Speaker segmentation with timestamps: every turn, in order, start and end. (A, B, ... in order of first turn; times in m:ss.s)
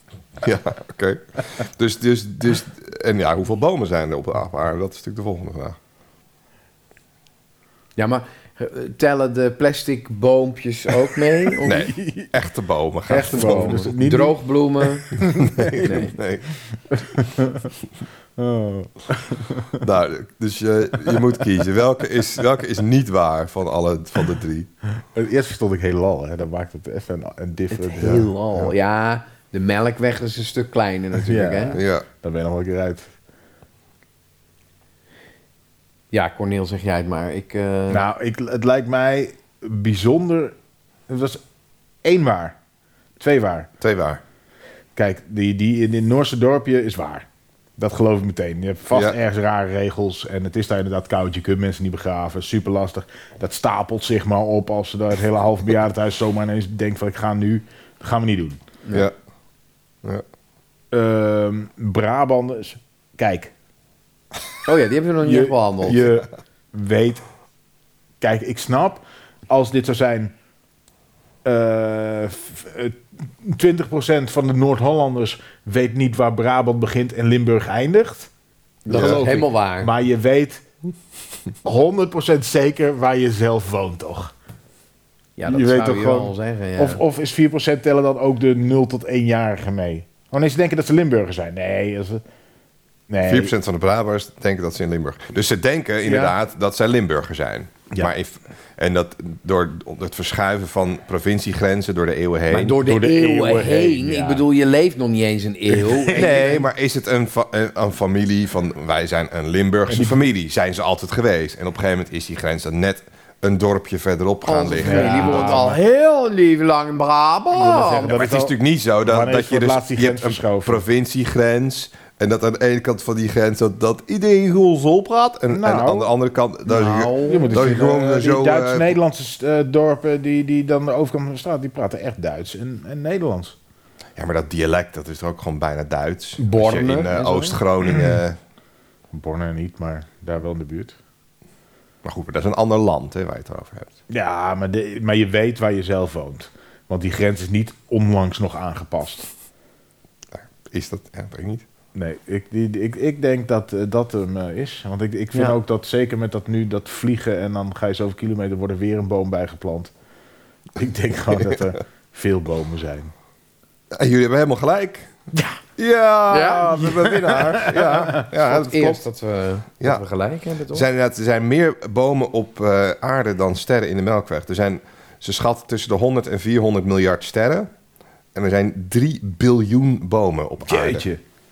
0:00.4-0:05.8 A
0:08.0-0:11.9 B
0:11.6-0:13.8 A
0:11.9-0:12.3 C
0:13.1-0:14.4 C
0:13.2-0:15.2 B
0:15.0-0:16.1 C
0:15.4-0:16.5 A
0:15.8-0:16.1 B
0:16.9-0:17.7 C
0:18.4-0:19.8 C
0:19.8-0:24.7 A
0:25.1-0:28.3 C
0:27.7-0:31.8 B
0:28.0-0:28.2 A
0:31.2-0:33.1 C
0:31.7-0:32.0 A
0:36.1-0:38.0 B
0:37.9-0:40.5 C
0:41.1-0:41.4 C
0:42.0-0:42.6 C
0:43.2-0:43.7 C
0:43.8-0:44.2 A
0:44.9-0:47.3 C
0:47.8-0:58.6 C
1:00.9-1:03.5 C
1:04.6-1:06.0 B
1:05.2-1:07.2 C
1:08.2-1:10.3 C
1:11.4-1:18.3 C
1:18.9-1:19.9 B
1:18.9-1:20.6 C
1:18.9-1:19.2 A
1:21.6-1:24.3 C
1:25.4-1:27.0 B
1:25.4-1:32.2 C
1:33.1-1:33.5 C
1:33.2-1:42.8 A
1:36.0-1:36.4 C
1:42.5-1:46.6 B
1:42.8-1:44.4 C
1:45.7-1:46.5 C
1:46.1-1:55.6 A
1:49.9-1:50.2 C
1:54.4-1:58.2 B
1:54.8-1:55.8 C
1:57.5-2:00.8 C
1:58.0-2:08.9 A
2:05.5-2:06.1 C
2:06.7-2:07.7 B
2:07.2-2:13.6 C
2:14.2-2:18.4 A
2:16.4-2:17.6 B
2:17.9-2:18.2 C
2:19.1-2:21.0 C
2:22.0-2:23.9 A
2:24.1-2:29.3 C
2:30.3-2:31.6 A
2:31.9-2:39.9 C
2:40.7-2:43.1 C
2:43.9-2:45.1 A
2:45.8-2:49.0 A
2:46.3-2:46.9 B
2:46.7-2:48.3 C
2:48.3-2:50.8 B
2:50.7-2:57.7 A
2:58.4-3:01.1 A
3:00.7-3:01.2 C